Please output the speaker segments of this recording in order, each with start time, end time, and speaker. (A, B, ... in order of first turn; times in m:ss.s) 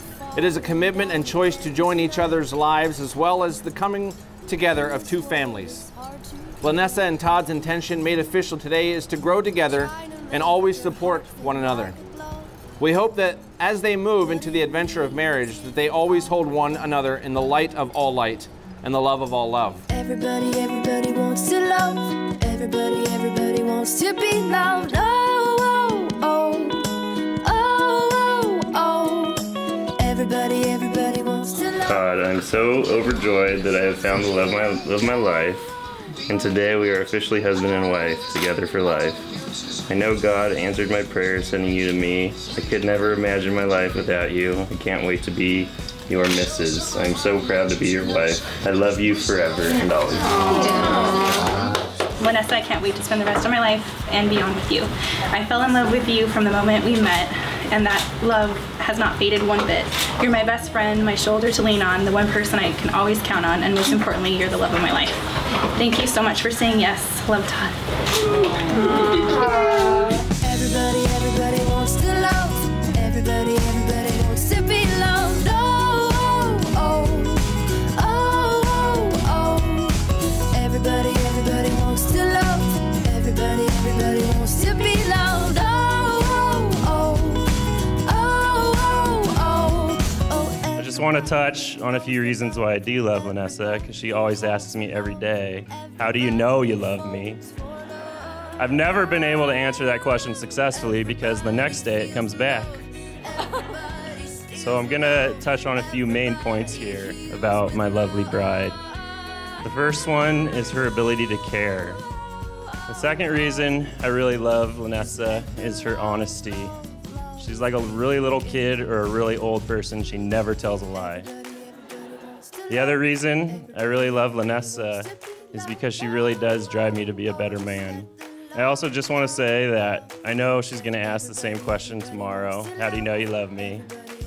0:00.3-0:05.9 A
0:06.6-0:12.1 A
0:12.8-0:19.9 A
0:19.9-0:31.8 B
0:31.8-0:35.7 C
0:36.3-0:39.3 C
0:39.9-0:50.8 C
0:50.6-0:51.4 D
0:52.2-1:07.8 D
1:08.3-1:10.2 D
1:10.2-1:30.7 B
1:30.8-1:37.5 C
1:38.6-1:42.8 C
1:44.5-1:48.8 C
1:49.6-1:52.0 C
1:52.9-1:56.8 C
1:57.4-2:01.3 C
2:02.7-2:13.9 C